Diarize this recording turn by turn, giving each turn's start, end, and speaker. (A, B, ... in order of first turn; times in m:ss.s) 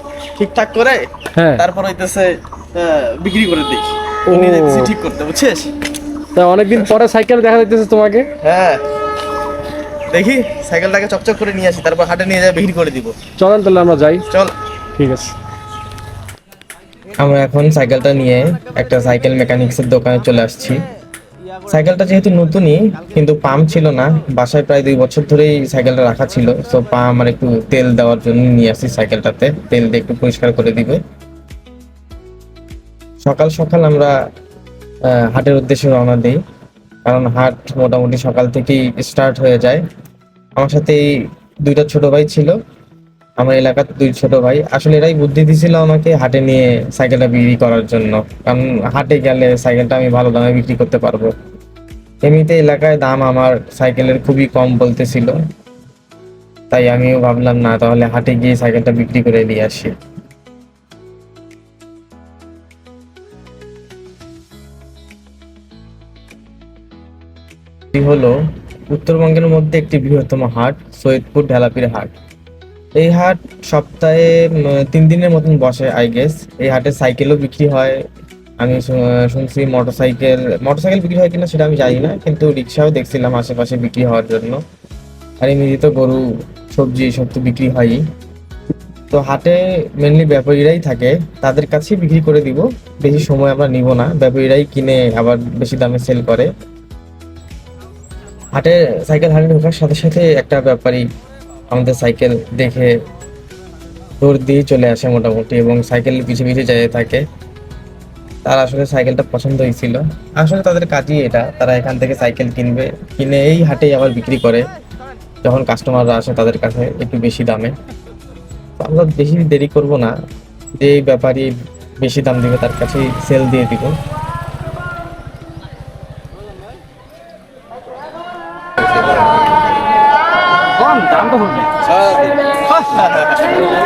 0:00.4-0:01.1 A
0:01.4-0:01.7 B
0:01.6-0:05.6 A
0:04.3-0:04.9 B
0:06.3-0:08.3 B
0:08.4-0:08.8 A
0:10.1-0:13.1 A
0:13.4-0:14.2 B
0:15.0-0:15.3 B
0:17.2-0:20.8 C
0:21.7-0:31.0 C
0:33.2-0:34.2 C
0:35.1-0:36.4 C
0:37.1-0:39.8 C
0:40.6-0:41.0 C
0:41.6-0:42.6 C
0:43.4-0:51.3 C
0:52.2-0:55.4 C
0:56.7-1:00.0 C
1:07.9-1:12.1 C
1:13.0-1:18.0 C
1:18.6-1:24.6 C
1:25.4-1:28.0 C
1:29.1-1:36.5 C
1:38.5-1:41.1 C
1:41.7-1:42.9 C
1:44.2-1:47.2 C
1:48.4-1:54.6 C
1:55.4-1:57.7 C
1:58.8-2:00.1 C
2:00.8-2:04.0 C
2:10.9-2:11.7 B
2:12.8-2:13.4 A